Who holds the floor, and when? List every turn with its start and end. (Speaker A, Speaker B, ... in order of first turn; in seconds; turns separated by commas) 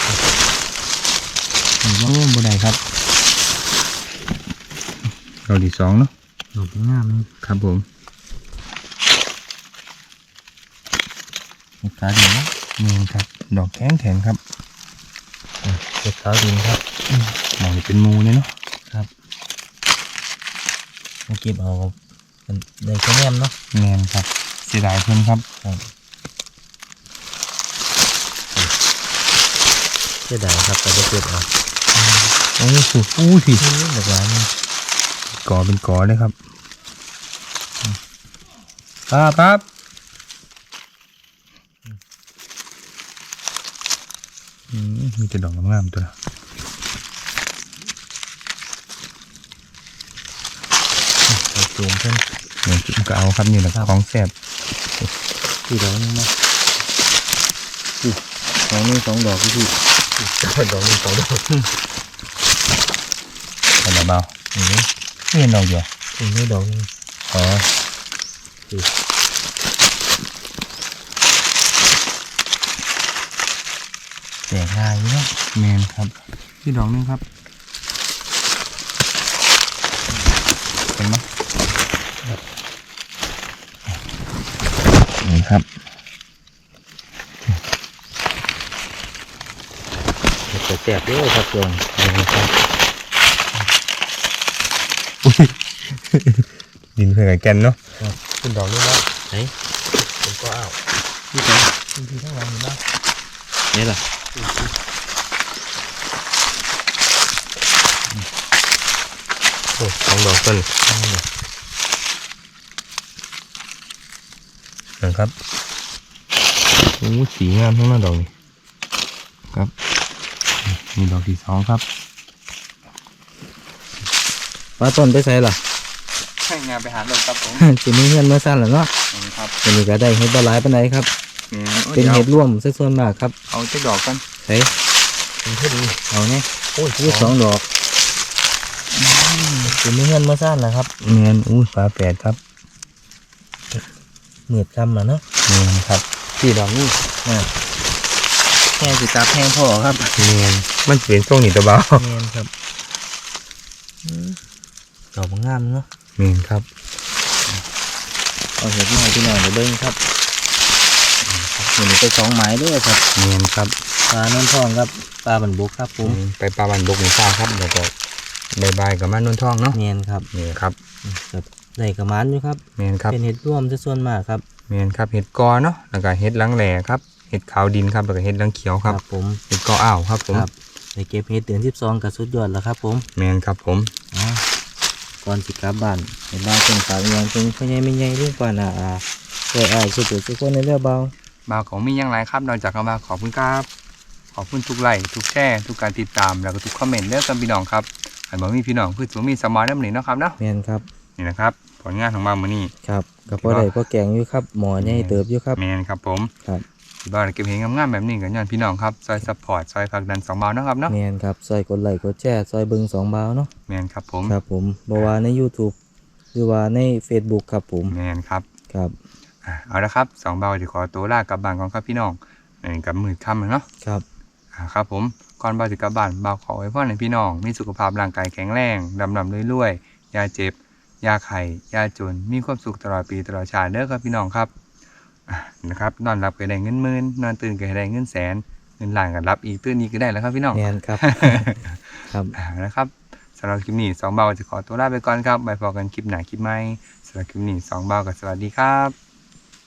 Speaker A: 1.8-2.1, Speaker B: 2.0-2.8, Speaker B: 5.5-6.1, Speaker A: 6.5-7.3, Speaker B: 7.4-7.8, Speaker A: 11.8-12.5, Speaker B: 12.8-14.4, Speaker A: 15.6-16.8, Speaker B: 17.4-18.5, Speaker A: 21.3-22.0, Speaker A: 22.5-23.5, Speaker B: 23.7-25.4, Speaker A: 30.3-31.5, Speaker B: 32.6-33.6, Speaker A: 33.6-34.5, Speaker B: 35.4-36.4, Speaker B: 39.1-39.6, Speaker B: 44.7-46.1, Speaker A: 51.3-52.2, Speaker B: 52.6-54.3, Speaker A: 55.7-56.3, Speaker A: 58.0-61.7, Speaker B: 63.8-64.3, Speaker A: 64.5-64.9, Speaker B: 65.3-65.9, Speaker A: 66.2-67.7, Speaker A: 74.5-75.3, Speaker B: 75.5-77.2, Speaker B: 81.0-81.3, Speaker B: 85.2-85.6, Speaker A: 90.5-92.0, Speaker B: 92.0-92.5, Speaker B: 95.2-97.8, Speaker B: 98.4-99.1, Speaker B: 100.0-100.8, Speaker A: 101.3-101.7, Speaker B: 101.8-102.8, Speaker A: 103.7-104.0, Speaker B: 109.8-110.7, Speaker A: 110.9-111.2, Speaker B: 115.0-115.3, Speaker B: 117.0-118.3, Speaker B: 120.7-121.8, Speaker A: 124.8-125.6, Speaker B: 126.4-127.7, Speaker A: 127.5-128.9, Speaker B: 129.1-129.5, Speaker A: 129.6-131.1, Speaker B: 131.5-132.3, Speaker A: 131.9-133.3, Speaker B: 133.5-134.2, Speaker A: 134.4-134.7, Speaker B: 135.5-135.9, Speaker A: 136.0-137.7, Speaker B: 136.8-137.4, Speaker B: 138.9-139.8, Speaker A: 139.6-140.9, Speaker B: 141.0-142.4, Speaker A: 144.5-145.2, Speaker B: 145.5-147.0, Speaker A: 147.2-147.5, Speaker A: 148.8-150.2, Speaker B: 150.2-152.1, Speaker A: 152.0-152.5, Speaker A: 154.0-154.4, Speaker A: 155.1-155.9, Speaker B: 156.2-156.7, Speaker A: 158.6-160.0, Speaker B: 161.2-161.5, Speaker A: 161.6-163.0, Speaker B: 163.2-163.8, Speaker A: 164.1-166.2, Speaker B: 166.0-167.9, Speaker B: 168.5-169.8, Speaker A: 169.7-170.3, Speaker B: 170.3-170.8, Speaker A: 171.0-174.4, Speaker B: 172.8-173.2, Speaker B: 174.7-180.5, Speaker A: 178.8-179.4, Speaker A: 180.3-183.1, Speaker B: 183.2-183.9, Speaker A: 184.1-184.4, Speaker A: 185.2-191.1, Speaker B: 191.5-193.7, Speaker B: 194.3-200.4, Speaker A: 200.4-200.8, Speaker B: 201.2-202.7, Speaker A: 202.8-205.6, Speaker B: 203.3-203.7, Speaker B: 204.8-206.3, Speaker B: 207.0-210.9, Speaker A: 210.9-213.5, Speaker B: 213.7-214.4, Speaker A: 214.3-215.8, Speaker A: 216.3-218.0, Speaker B: 217.9-218.5, Speaker B: 219.4-223.7, Speaker B: 224.5-234.5, Speaker B: 235.3-248.9, Speaker A: 240.5-241.6, Speaker A: 242.1-242.3